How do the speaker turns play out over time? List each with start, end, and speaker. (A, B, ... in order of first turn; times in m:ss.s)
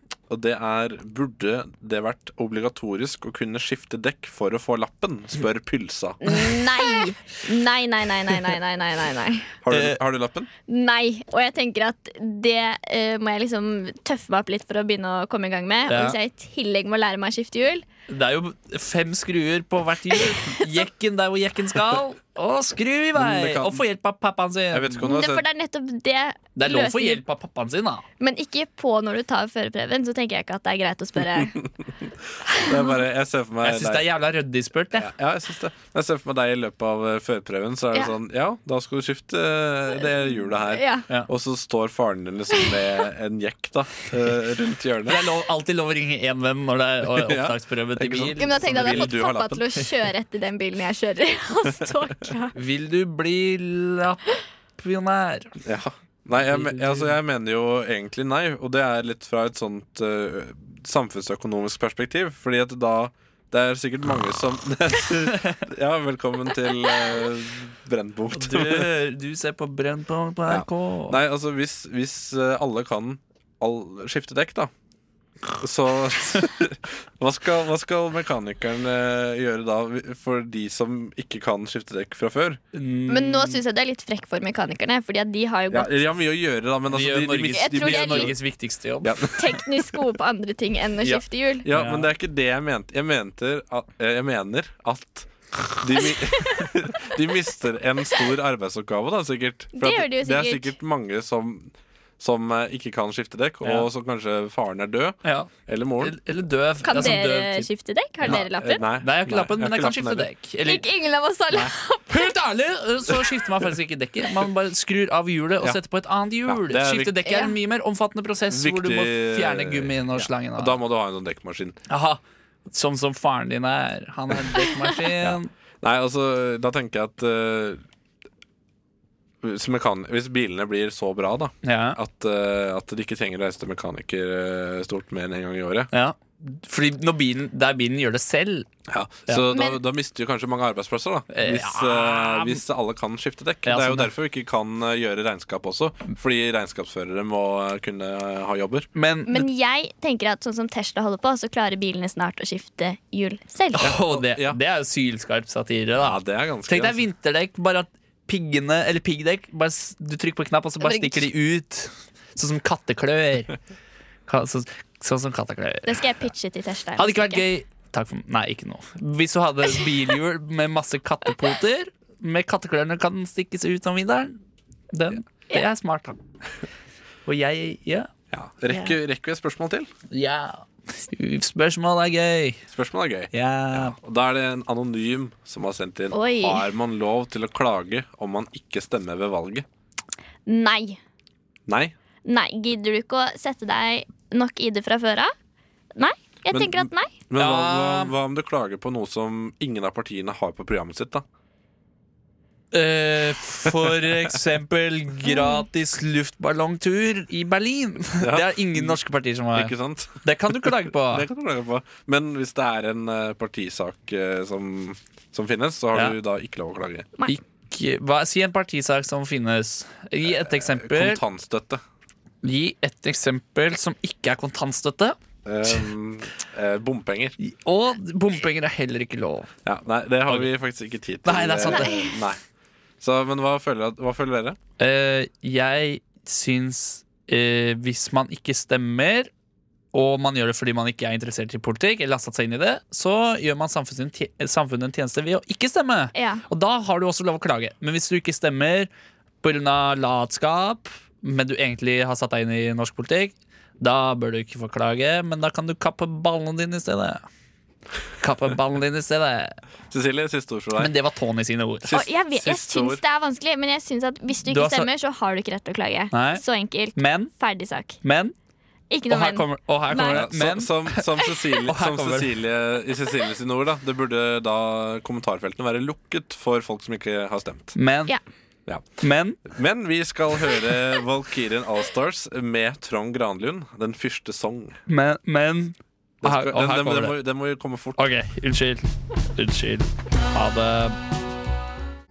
0:00.3-0:06.2 A
0:06.2-0:09.5 B
0:09.6-0:10.5 A
0:09.7-0:10.0 C
0:10.7-0:17.8 B
0:15.9-0:16.2 C
0:18.1-0:25.0 C
0:20.1-0:20.8 B
0:23.2-0:23.8 A
0:24.7-0:25.4 A
0:25.0-0:27.2 B
0:26.6-0:28.0 C
0:28.2-0:31.6 B
0:32.0-0:34.1 A
0:32.5-0:33.0 B
0:33.6-0:35.1 C
0:34.9-0:45.2 A
0:40.7-0:41.1 B
0:45.1-0:49.2 C
0:47.1-0:49.7 A
0:48.4-0:52.6 B
0:52.6-0:54.3 C
0:54.8-0:55.6 C
0:55.6-1:08.9 A
0:56.4-0:57.2 C
1:08.3-1:11.2 C
1:10.5-1:14.7 A
1:15.6-1:22.6 A
1:22.7-1:23.6 C
1:23.1-1:25.9 B
1:25.7-1:28.3 A
1:26.9-1:29.2 C
1:27.5-1:28.3 B
1:29.0-1:29.7 A
1:29.4-1:31.7 B
1:31.0-1:46.2 A
1:31.7-1:32.1 C
1:36.2-1:36.6 B
1:39.8-1:40.8 B
1:43.6-1:43.9 C
1:45.2-1:45.5 C
1:46.0-1:47.7 C
1:46.8-1:48.8 B
1:48.2-1:50.3 A
1:49.0-1:50.8 C
1:50.6-1:52.3 B
1:51.5-2:00.8 C
1:56.5-1:57.2 A
1:57.3-1:57.6 B
1:58.5-2:01.8 A
2:01.9-2:05.5 C
2:05.2-2:07.8 A
2:09.4-2:15.9 A
2:11.6-2:12.0 C
2:15.9-2:18.7 C
2:18.9-2:28.9 A
2:19.5-2:19.8 B
2:21.3-2:22.6 C
2:23.6-2:24.1 C
2:29.0-2:29.5 C
2:29.3-2:33.9 B
2:33.7-2:43.6 C
2:33.8-2:34.6 A
2:36.0-2:37.0 A
2:40.8-2:41.3 B
2:44.3-2:46.0 C
2:45.9-2:47.4 B
2:47.0-2:54.4 C
2:54.9-2:56.2 C
2:57.3-2:58.1 C
2:58.3-2:59.9 A
3:00.1-3:02.6 C
3:02.7-3:09.7 A
3:03.3-3:04.0 C
3:06.1-3:06.7 B
3:10.5-3:11.0 B
3:11.7-3:12.0 A
3:12.2-3:15.3 B
3:16.0-3:17.1 B
3:16.5-3:21.2 A
3:17.4-3:18.1 C
3:22.7-3:31.3 C
3:23.7-3:24.4 A
3:25.2-3:25.6 B
3:28.2-3:29.0 A
3:29.5-3:37.1 A
3:37.2-3:41.2 C
3:40.2-3:41.8 A
3:42.4-3:45.2 C
3:45.4-3:47.4 A
3:47.4-3:49.5 C
3:49.6-3:52.4 A
3:51.2-3:52.0 C
3:51.7-3:52.1 B
3:53.0-3:54.6 A
3:54.8-3:59.3 C
3:59.9-4:08.9 C
4:06.2-4:06.5 B
4:09.4-4:17.2 C
4:18.2-4:19.6 C
4:19.9-4:20.9 A
4:20.8-4:22.0 C
4:21.9-4:23.0 A
4:21.9-4:28.0 B
4:24.5-4:24.9 C
4:26.1-4:26.4 C
4:27.0-4:27.3 C
4:28.0-4:28.3 C
4:28.9-4:30.3 B
4:29.1-4:32.4 C
4:30.0-4:37.8 A
4:37.8-4:38.1 C
4:39.0-4:39.4 C
4:39.4-4:44.8 A
4:44.9-4:47.2 C
4:46.2-4:48.0 A
4:48.0-4:51.0 C